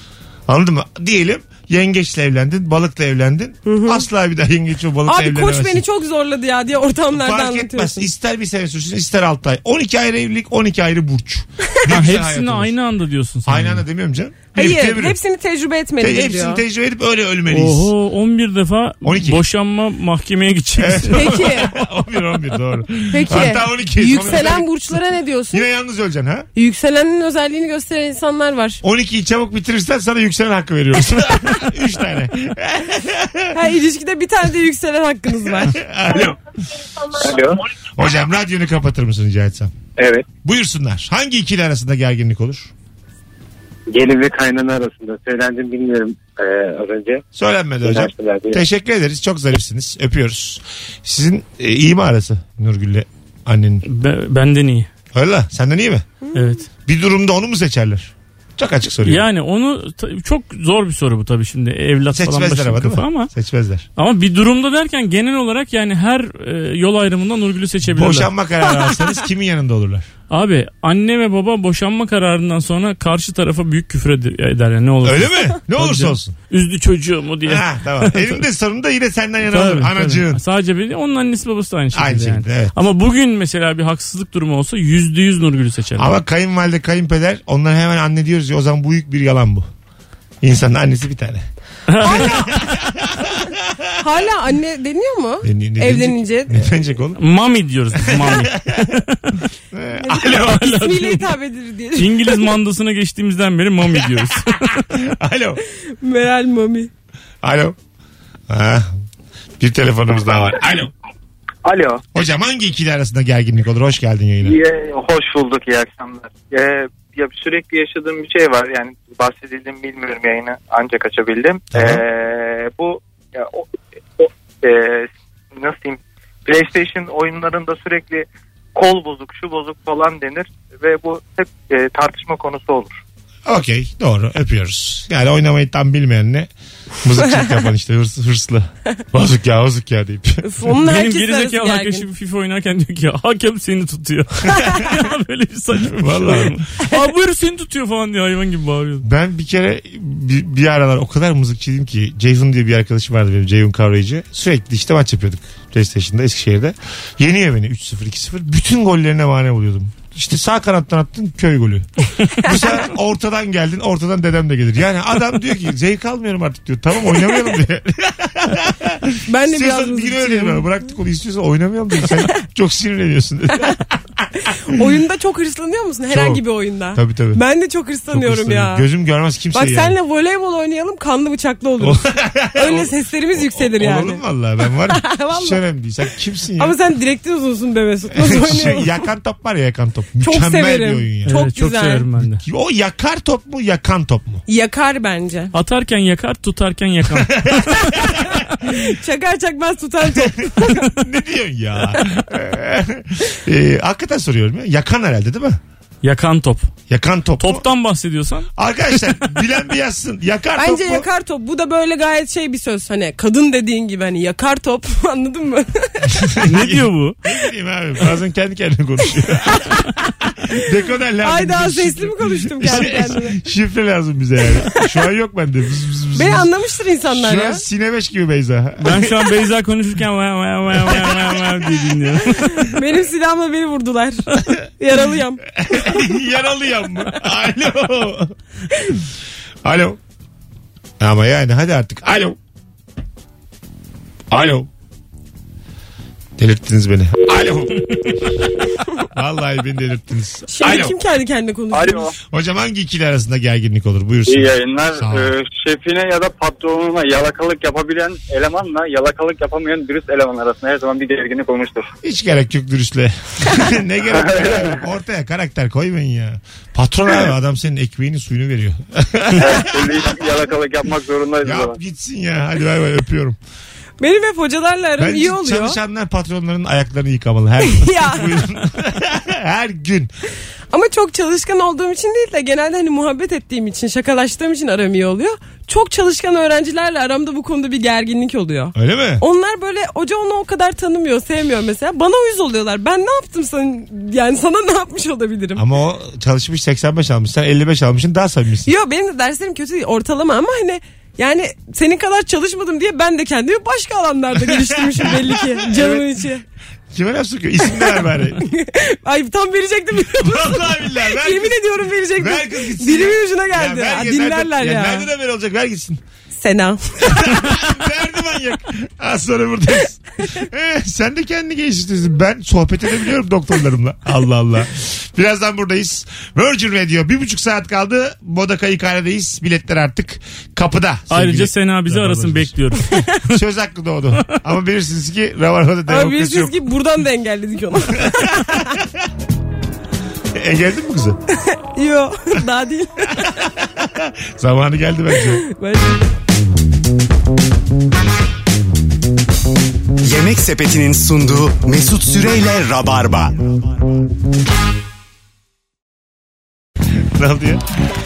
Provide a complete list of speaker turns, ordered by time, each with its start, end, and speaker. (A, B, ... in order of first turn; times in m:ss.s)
0:00.5-0:05.8 A
0:03.6-0:04.0 B
0:05.0-0:08.1 B
0:07.1-0:12.7 A
0:11.9-0:13.8 C
0:13.4-0:15.2 A
0:14.5-0:16.6 B
0:16.0-0:17.9 A
0:17.5-0:21.5 C
0:19.0-0:19.4 A
0:20.8-0:25.0 A
0:21.1-0:21.7 B
0:23.1-0:25.6 B
0:25.5-0:26.5 A
0:26.5-0:28.8 B
0:28.8-0:33.6 A
0:33.5-0:35.8 B
0:35.5-0:36.4 A
0:37.2-0:37.6 D
0:37.8-0:39.7 A
0:40.0-0:40.3 D
0:40.4-0:42.7 A
0:43.9-0:47.2 D
0:47.3-0:53.8 A
0:47.8-0:48.6 D
0:53.8-0:54.9 C
0:55.1-0:56.1 A
0:56.3-0:56.6 B
0:56.3-0:56.7 C
0:56.8-0:59.2 A
0:59.0-1:03.3 C
1:02.1-1:03.8 A
1:04.0-1:08.3 C
1:07.8-1:10.0 A
1:10.3-1:18.4 C
1:15.0-1:16.4 A
1:17.4-1:20.4 A
1:19.5-1:26.2 C
1:21.9-1:22.8 A
1:26.0-1:29.7 A
1:30.4-1:31.4 A
1:31.9-1:32.6 C
1:32.0-1:32.7 B
1:32.0-1:33.9 A
1:34.0-1:36.7 B
1:35.4-1:37.2 A
1:37.2-1:39.4 C
1:38.0-1:38.9 A
1:39.7-1:40.7 A
1:39.9-1:42.4 B
1:40.3-1:41.2 C
1:42.0-1:44.9 C
1:44.9-1:45.6 A
1:45.9-1:46.9 B
1:47.4-1:47.8 A
1:48.5-1:48.9 A
1:49.6-1:50.9 A
1:51.6-1:52.0 E
1:52.1-1:54.6 A
1:54.4-2:13.0 E
2:01.7-2:02.0 A
2:13.4-2:16.5 A
2:17.0-2:20.4 A
2:20.4-2:22.1 B
2:20.8-2:29.0 C
2:25.9-2:26.6 A
2:29.0-2:54.8 A
2:49.3-2:50.7 B
2:54.4-2:58.8 B
2:56.1-2:56.4 A
2:56.9-2:57.4 A
2:58.1-3:00.0 A
2:59.5-3:02.0 B
3:01.8-3:06.8 A
3:02.5-3:04.2 B
3:04.9-3:05.6 B
3:06.6-3:09.0 B
3:08.1-3:11.4 A
3:10.2-3:12.0 B
3:11.2-3:12.4 C
3:12.2-3:14.4 A
3:14.5-3:15.5 B
3:15.5-3:18.0 C
3:17.2-3:18.4 A
3:18.6-3:20.8 B
3:20.0-3:25.6 A
3:26.0-3:26.7 C
3:26.9-3:27.6 A
3:27.4-3:28.5 C
3:28.6-3:31.0 A
3:30.6-3:36.4 B
3:36.1-3:46.5 A
3:36.4-3:37.1 C
3:41.2-3:43.4 B
3:46.1-3:47.6 B
3:47.1-3:49.3 A
3:48.8-3:52.7 C
3:50.7-3:52.1 A
3:52.4-3:55.9 B
3:55.5-3:58.3 A
3:59.6-4:00.0 A
4:01.0-4:02.4 A
4:04.3-4:04.7 A
4:06.4-4:08.4 A
4:09.1-4:11.0 A
4:10.5-4:12.1 B
4:11.7-4:12.1 F
4:12.2-4:15.3 A
4:14.3-4:21.9 F
4:22.0-4:30.1 A
4:24.1-4:24.8 F
4:29.3-4:31.8 F
4:31.4-4:33.4 A
4:34.0-4:35.8 B
4:35.0-4:40.1 A
4:37.6-4:38.4 B
4:40.7-4:55.6 B
4:48.8-4:49.2 A
4:55.5-4:58.7 A
4:58.6-5:06.4 B
5:04.4-5:05.9 A
5:06.9-5:08.4 A
5:07.6-5:15.1 B
5:10.1-5:16.0 A
5:16.3-5:17.5 B
5:17.0-5:36.6 A
5:31.1-5:33.4 C
5:35.9-5:38.8 B
5:38.1-5:38.8 A
5:40.3-5:41.2 A
5:41.5-5:43.5 B
5:43.6-5:45.4 A
5:45.2-5:46.0 B
5:50.0-5:53.4 G
5:57.1-5:57.6 A